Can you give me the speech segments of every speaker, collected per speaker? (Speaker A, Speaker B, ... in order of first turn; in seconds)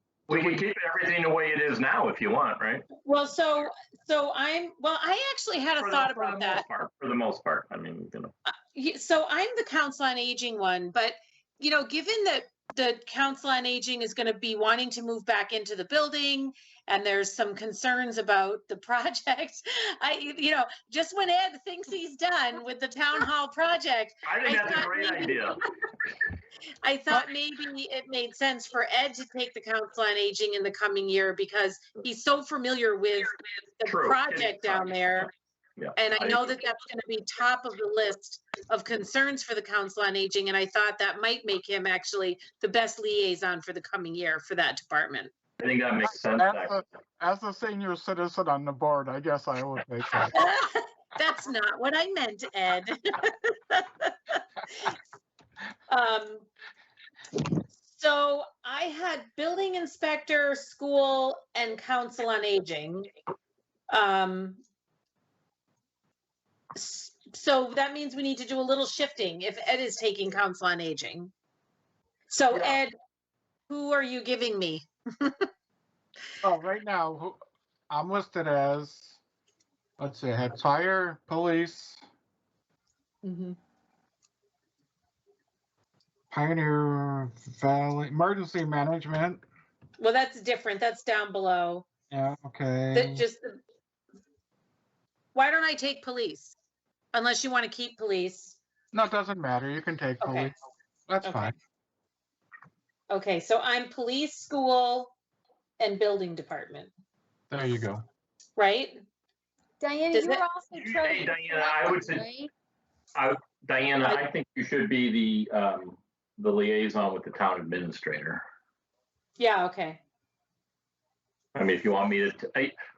Speaker A: 0.3-0.6, 46.2-50.4, 76.4-77.4, 77.9-79.2, 80.0-82.0, 86.3-89.4, 92.1-93.2, 98.9-100.5, 101.1-101.5, 107.5-108.0
Speaker B: 0.3-2.9, 5.8-8.3, 24.2-25.6, 33.9-36.6, 45.6-46.7, 72.5-72.8, 110.7-112.2, 113.1-118.4, 121.5-122.7
Speaker C: 3.0-6.6, 8.5-25.5, 26.8-35.3, 36.0-45.3, 50.3-55.0, 55.9-56.5, 57.8-63.1, 63.9-64.6, 66.8-71.3, 72.3-72.9, 73.7-75.5, 90.0-91.8, 92.9-93.6, 95.3-96.5, 97.1-98.6, 100.2-100.5, 101.2-101.5, 103.1-105.1, 105.8-106.9, 108.6-109.0, 110.1-110.4, 119.4-120.0
Speaker D: 83.2-83.6, 109.8-112.5